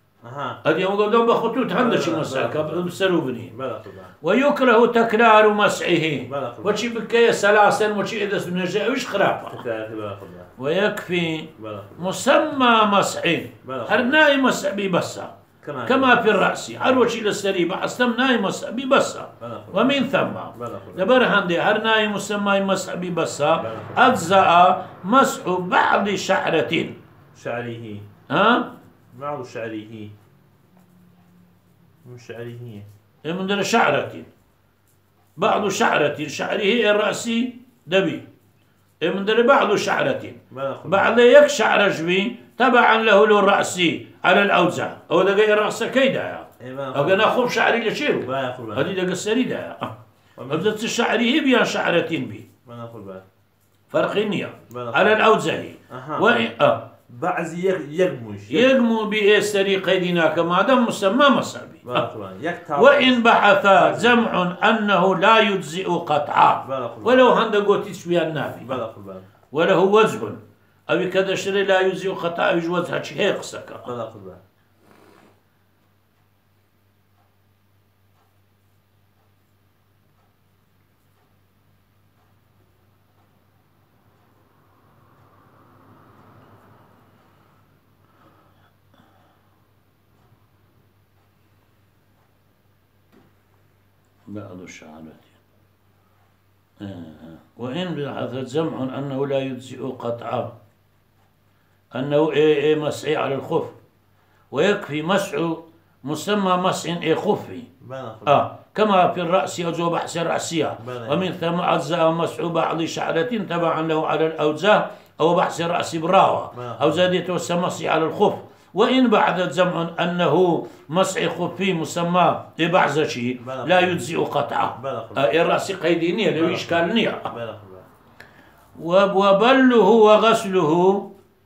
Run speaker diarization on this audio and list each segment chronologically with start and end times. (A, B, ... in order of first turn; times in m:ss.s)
0:00.2-0:00.6 A
0:00.6-0:03.6 B
0:01.7-0:04.2 A
0:04.2-0:09.6 B
0:06.2-0:06.9 A
0:09.5-0:10.5 A
0:10.6-0:27.0 B
0:11.6-0:12.3 A
0:13.6-0:14.3 A
0:15.6-0:17.1 A
0:19.4-0:21.3 A
0:23.6-0:24.5 A
0:27.3-0:28.1 A
0:28.3-0:28.7 B
0:29.1-0:30.1 A
0:32.0-0:32.9 A
0:33.2-0:34.3 B
0:35.4-0:38.3 B
0:39.0-0:49.9 B
0:40.5-0:41.2 A
0:46.6-0:47.4 A
0:48.2-0:48.9 A
0:50.4-0:50.8 A
0:50.5-0:52.5 B
0:52.6-0:53.2 A
0:53.9-0:56.8 B
0:54.6-0:55.3 A
0:55.9-0:56.5 A
0:57.1-0:58.8 A
0:58.5-1:02.1 B
1:01.8-1:04.3 A
1:02.8-1:08.8 B
1:06.6-1:07.3 A
1:08.6-1:09.3 A
1:09.5-1:13.9 B
1:13.8-1:14.4 A
1:34.3-1:35.4 B
1:36.8-1:40.5 B
1:41.9-1:43.7 B
1:44.5-1:47.7 B
1:47.8-1:48.5 A
1:48.3-2:07.3 B
1:50.8-1:51.3 A
1:56.5-1:57.1 A
2:03.4-2:04.1 A
2:04.7-2:05.4 A
2:06.4-2:07.9 A
2:08.8-2:11.1 B